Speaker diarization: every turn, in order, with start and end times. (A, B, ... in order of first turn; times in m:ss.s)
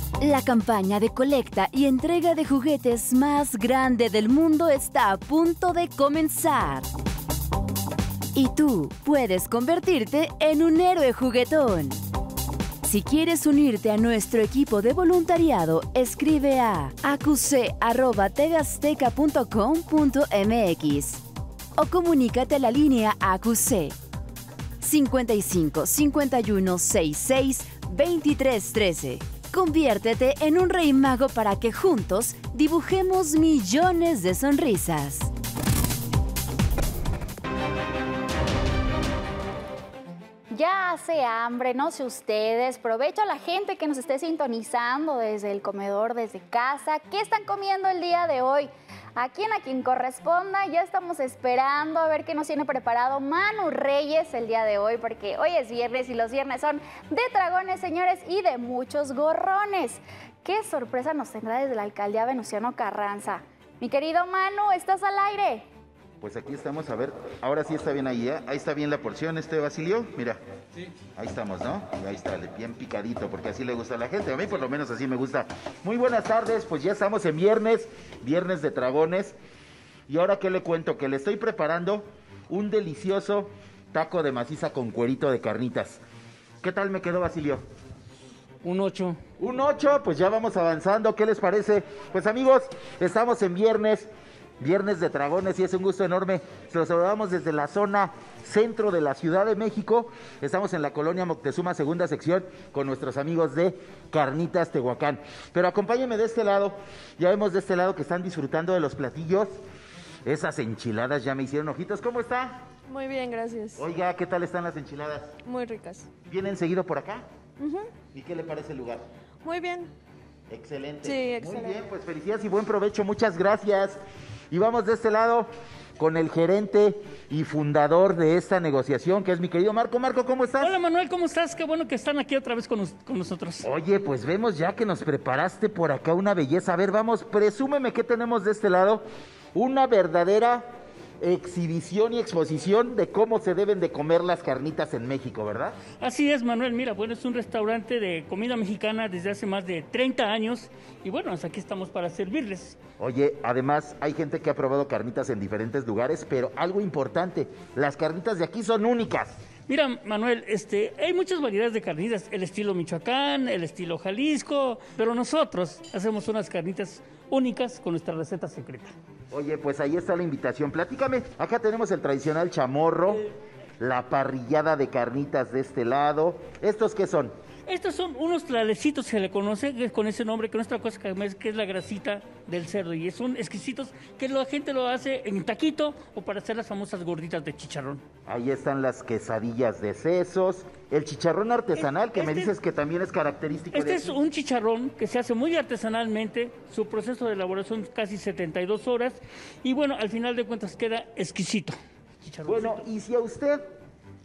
0:00.2-0:06.8 A
0:08.3-0:12.0 A
0:12.8-0:21.2 A
0:21.8-0:23.9 A
0:24.8-0:35.3 A
0:40.5-1:05.6 B
1:06.2-1:10.4 C
1:11.2-1:19.3 C
1:20.1-1:26.0 C
1:26.6-1:27.6 C
1:28.6-1:29.2 D
1:29.4-1:34.1 C
1:34.6-1:49.5 C
1:50.2-1:52.6 C
1:52.9-1:53.8 E
1:53.8-1:55.3 C
1:55.4-1:56.1 E
1:56.3-1:57.2 C
1:57.6-1:57.9 E
1:58.1-1:59.0 C
1:59.4-1:59.9 E
2:00.5-2:04.0 C
2:01.0-2:01.8 E
2:04.5-2:10.7 C
2:10.6-2:13.6 D
2:13.6-2:19.0 C
2:19.5-2:20.7 C
2:21.2-2:25.8 C
2:26.0-2:32.8 D
2:33.0-2:39.4 C
2:39.7-2:48.9 D
2:49.3-2:53.2 C
2:53.8-2:57.3 C
2:57.7-3:08.0 D
3:08.3-3:14.2 C
3:11.8-3:12.5 D
3:13.7-3:22.8 D
3:22.4-3:23.6 C